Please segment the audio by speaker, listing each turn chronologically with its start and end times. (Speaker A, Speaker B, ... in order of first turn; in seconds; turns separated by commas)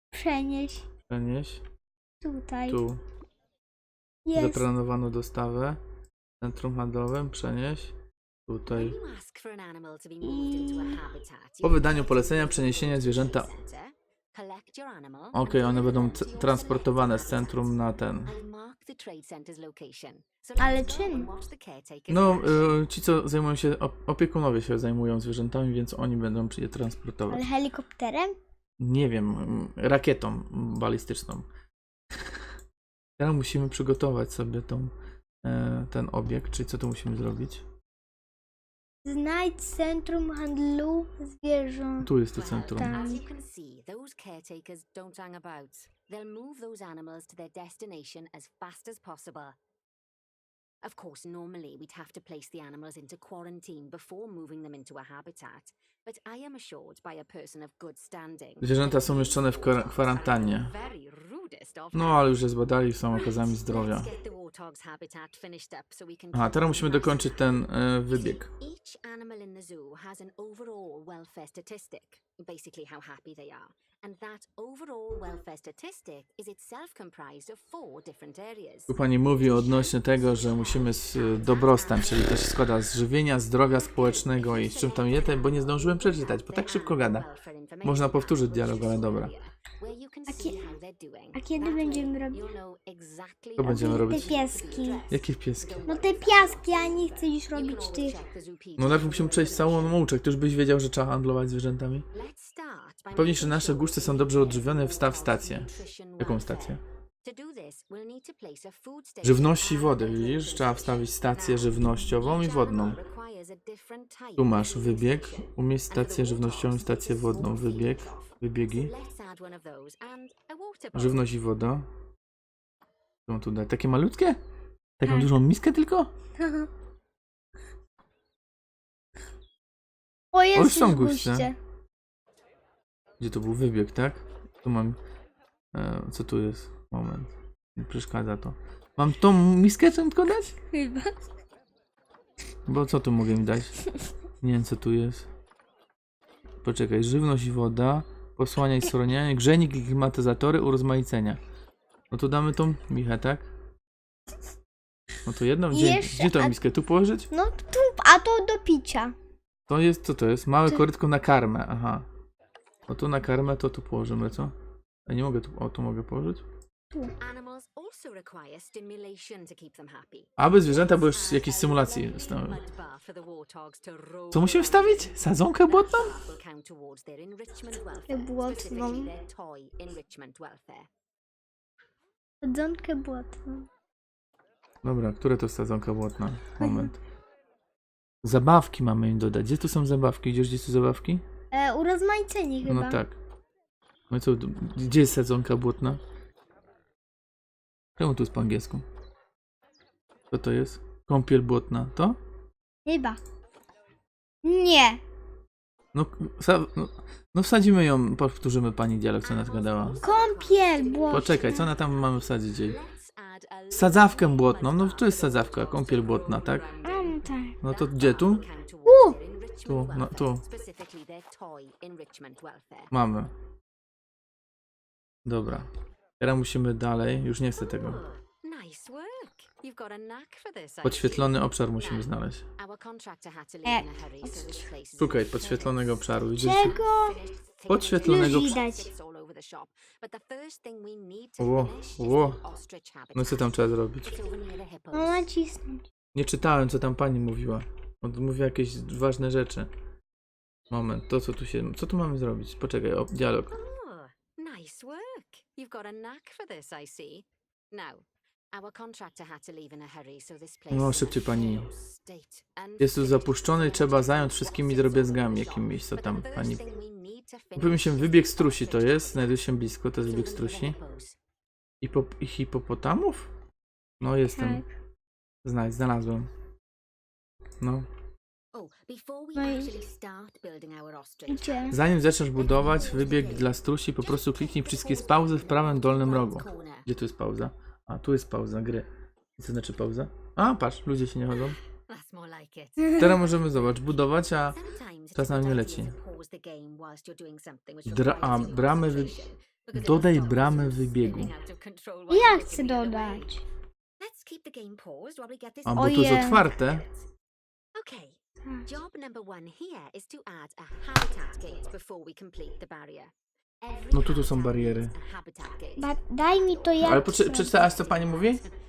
Speaker A: 0.1-0.9, Speaker B: 1.1-1.6, Speaker A: 2.2-2.8, Speaker B: 2.7-3.0, Speaker A: 4.2-4.7, Speaker B: 4.3-5.8, Speaker B: 6.4-7.9, Speaker B: 8.5-9.0, Speaker C: 8.7-22.8, Speaker A: 10.2-11.0, Speaker B: 11.6-13.5, Speaker B: 15.3-18.3, Speaker A: 20.6-21.3, Speaker B: 22.1-27.4, Speaker A: 27.3-28.4, Speaker B: 28.8-31.5, Speaker B: 32.1-32.4, Speaker B: 33.2-37.6, Speaker A: 39.0-42.1, Speaker B: 42.0-43.0, Speaker C: 42.3-49.5, Speaker A: 42.8-43.2, Speaker C: 50.8-62.3, Speaker B: 58.6-60.7, Speaker B: 61.9-64.1, Speaker C: 63.1-82.6, Speaker B: 66.3-68.5, Speaker B: 78.9-87.3, Speaker C: 83.6-100.0, Speaker B: 87.8-89.3, Speaker A: 90.3-90.6, Speaker A: 91.3-92.5, Speaker B: 93.6-94.4, Speaker A: 93.6-95.0, Speaker B: 95.1-95.8, Speaker A: 95.8-98.2, Speaker B: 98.8-102.0, Speaker C: 102.1-121.2, Speaker B: 103.1-106.8, Speaker B: 109.2-113.0, Speaker B: 114.4-118.9, Speaker B: 120.9-121.9, Speaker B: 123.3-124.4, Speaker B: 125.0-126.1, Speaker A: 125.0-125.3, Speaker A: 126.4-126.7, Speaker A: 130.3-131.6, Speaker B: 130.5-131.5, Speaker B: 133.2-135.0, Speaker B: 135.7-140.6, Speaker A: 140.7-141.1, Speaker B: 142.7-143.8, Speaker B: 144.4-145.3, Speaker B: 146.6-151.4, Speaker B: 152.1-153.5, Speaker B: 155.2-157.3, Speaker A: 155.7-156.6, Speaker A: 157.3-159.1, Speaker B: 159.7-162.1, Speaker B: 162.9-164.5, Speaker B: 165.1-166.4, Speaker C: 167.2-180.9, Speaker B: 170.4-172.6, Speaker B: 174.3-176.3, Speaker A: 178.1-179.1, Speaker A: 182.4-183.7, Speaker B: 184.8-187.0, Speaker A: 186.6-186.9, Speaker B: 188.2-191.2, Speaker A: 191.5-193.0, Speaker B: 192.6-193.2, Speaker B: 194.1-196.0, Speaker B: 198.0-198.8, Speaker B: 200.3-202.2, Speaker A: 202.8-203.2, Speaker A: 204.4-205.0, Speaker B: 205.9-210.0, Speaker C: 209.2-222.9, Speaker A: 210.0-211.7, Speaker B: 211.1-212.8, Speaker B: 213.7-216.6, Speaker A: 216.8-217.6, Speaker B: 217.6-218.4, Speaker A: 218.8-219.2, Speaker B: 219.7-220.4, Speaker B: 222.9-223.3, Speaker B: 225.2-225.7, Speaker B: 226.2-228.0, Speaker C: 227.6-245.3, Speaker B: 230.8-232.4, Speaker A: 233.6-234.5, Speaker B: 235.0-236.8, Speaker A: 236.4-237.1, Speaker B: 237.7-238.6, Speaker A: 238.0-238.9, Speaker B: 241.4-242.4, Speaker B: 243.1-244.2, Speaker A: 244.9-245.8, Speaker B: 246.1-249.7, Speaker B: 250.7-253.5, Speaker C: 253.5-269.4, Speaker B: 260.7-261.7, Speaker B: 262.8-266.6, Speaker B: 267.6-270.8, Speaker C: 270.0-271.2, Speaker B: 271.8-273.3, Speaker B: 274.0-274.6, Speaker A: 274.2-274.7, Speaker B: 275.4-276.3, Speaker B: 277.6-277.9, Speaker C: 278.5-286.9, Speaker A: 279.3-279.8, Speaker A: 281.3-281.7, Speaker B: 281.7-291.6, Speaker C: 291.7-303.4, Speaker A: 292.8-293.1, Speaker B: 293.0-294.6, Speaker B: 295.1-295.9, Speaker B: 297.9-301.3, Speaker A: 302.1-303.4, Speaker C: 304.0-307.1, Speaker B: 305.6-306.8, Speaker A: 305.8-306.4, Speaker C: 307.7-318.5, Speaker B: 313.9-314.9, Speaker A: 315.8-317.5, Speaker B: 316.8-318.4